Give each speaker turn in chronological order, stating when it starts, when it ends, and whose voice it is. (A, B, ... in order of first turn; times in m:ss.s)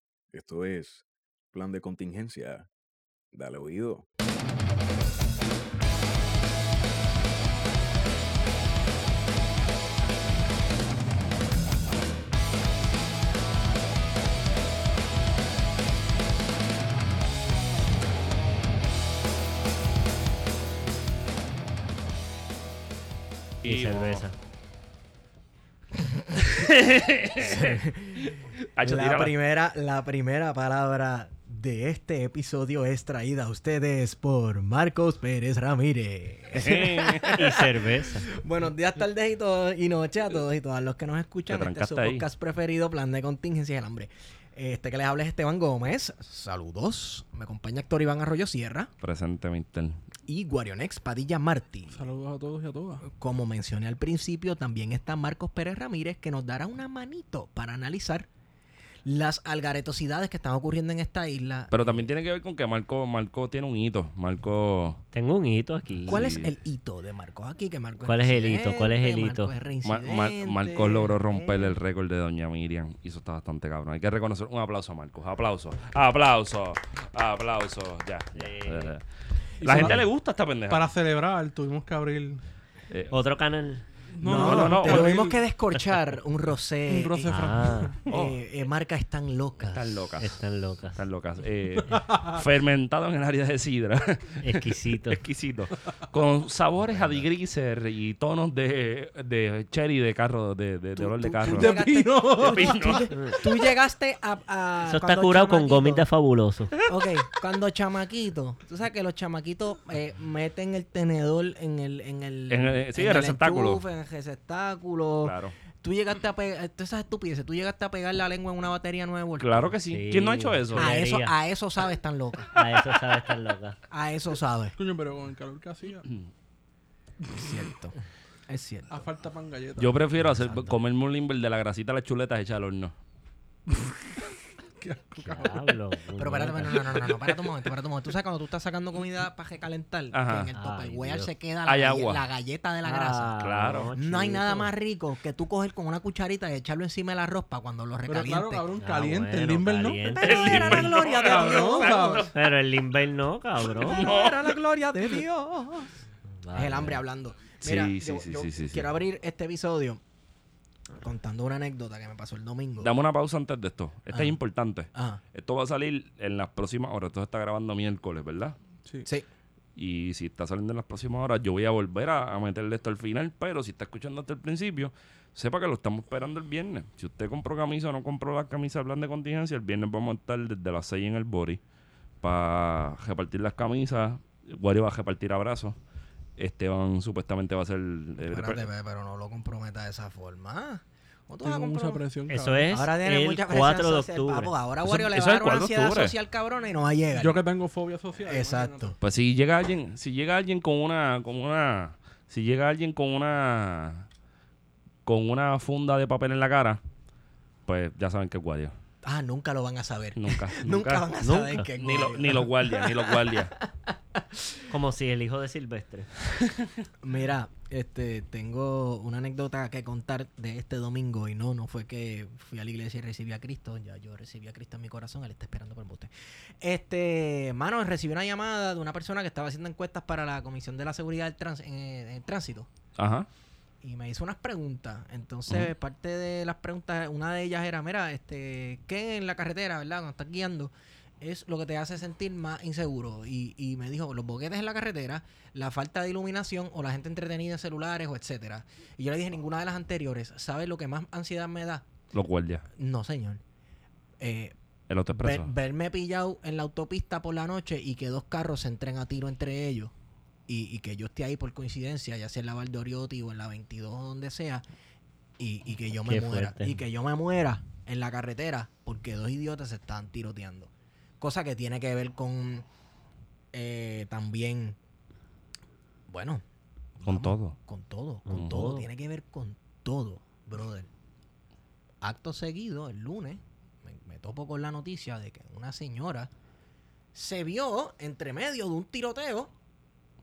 0:00.3-0:02.7 A
0:03.3-0:04.0 A
0:23.6-0:24.4 B
0:23.6-0:24.2 C
0:26.5-0:29.3 C
0:27.4-0:48.9 D
0:36.5-0:37.3 C
0:36.6-0:38.3 B
0:41.5-0:42.2 C
0:49.0-0:50.0 C
0:50.2-0:52.1 D
0:51.9-0:53.1 E
0:53.0-0:58.3 D
0:59.0-1:01.9 D
1:01.7-1:05.0 C
1:05.1-1:06.3 B
1:06.0-1:06.5 C
1:06.1-1:11.8 D
1:08.0-1:09.5 B
1:09.8-1:20.8 C
1:18.3-1:19.0 B
1:19.6-1:20.0 E
1:19.7-1:20.0 D
1:20.7-1:22.5 E
1:23.1-1:24.5 B
1:24.2-1:25.4 E
1:24.2-1:29.8 D
1:24.3-1:25.2 C
1:26.9-1:28.1 E
1:27.3-1:28.0 B
1:28.1-1:28.4 C
1:29.7-1:30.4 C
1:30.2-1:31.1 B
1:31.0-1:41.8 C
1:34.4-1:35.2 B
1:36.9-1:37.2 B
1:41.0-1:46.0 D
1:41.4-1:43.1 E
1:42.4-1:43.1 C
1:43.1-1:43.4 B
1:44.8-1:46.8 B
1:46.8-1:59.7 D
1:52.5-1:53.8 C
1:55.2-1:55.6 C
1:59.4-2:01.0 C
1:59.9-2:01.3 B
2:00.7-2:02.6 D
2:02.5-2:03.8 B
2:03.9-2:04.8 D
2:04.8-2:06.0 E
2:07.3-2:08.0 D
2:08.5-2:08.9 D
2:08.9-2:10.0 E
2:09.8-2:12.9 C
2:10.4-2:10.7 D
2:13.7-2:15.8 E
2:15.2-2:16.9 B
2:16.2-2:23.4 D
2:16.7-2:17.5 E
2:20.1-2:20.5 C
2:20.5-2:21.3 B
2:21.6-2:22.2 C
2:22.8-2:24.7 B
2:23.4-2:23.9 C
2:23.9-2:28.7 D
2:28.1-2:32.3 E
2:28.8-2:30.8 B
2:30.0-2:32.3 D
2:30.2-2:32.3 C
2:32.3-2:34.0 B
2:33.7-2:36.0 D
2:33.9-2:34.6 C
2:36.3-2:37.0 B
2:36.5-2:40.0 D
2:37.6-2:38.9 C
2:40.9-2:42.9 D
2:42.8-2:48.6 C
2:44.1-2:44.4 D
2:44.9-2:45.2 D
2:49.8-3:01.6 C
3:02.2-3:05.8 C
3:06.4-3:08.7 C
3:08.2-3:12.0 D
3:11.4-3:12.7 E
3:12.3-3:14.5 B
3:12.7-3:17.4 D
3:14.8-3:16.1 C
3:17.1-3:19.0 E
3:18.2-3:18.9 D
3:19.0-3:24.1 C
3:25.0-3:26.8 C
3:27.6-3:28.7 C
3:29.0-3:34.6 D
3:30.2-3:33.6 C
3:34.7-3:36.1 B
3:37.0-3:52.7 D
3:53.0-3:53.3 C
3:53.8-4:11.8 D
4:12.1-4:12.6 C
4:12.8-4:13.4 D
4:14.2-4:14.5 D
4:14.9-4:15.5 C
4:15.2-4:19.9 D
4:20.5-4:24.6 D
4:25.4-4:32.7 D
4:26.0-4:26.8 B
4:33.5-4:34.8 D
4:36.1-4:36.4 D
4:37.0-4:40.9 D
4:37.0-4:37.6 C
4:38.3-4:38.9 B
4:42.0-4:46.3 D
4:47.1-4:49.5 D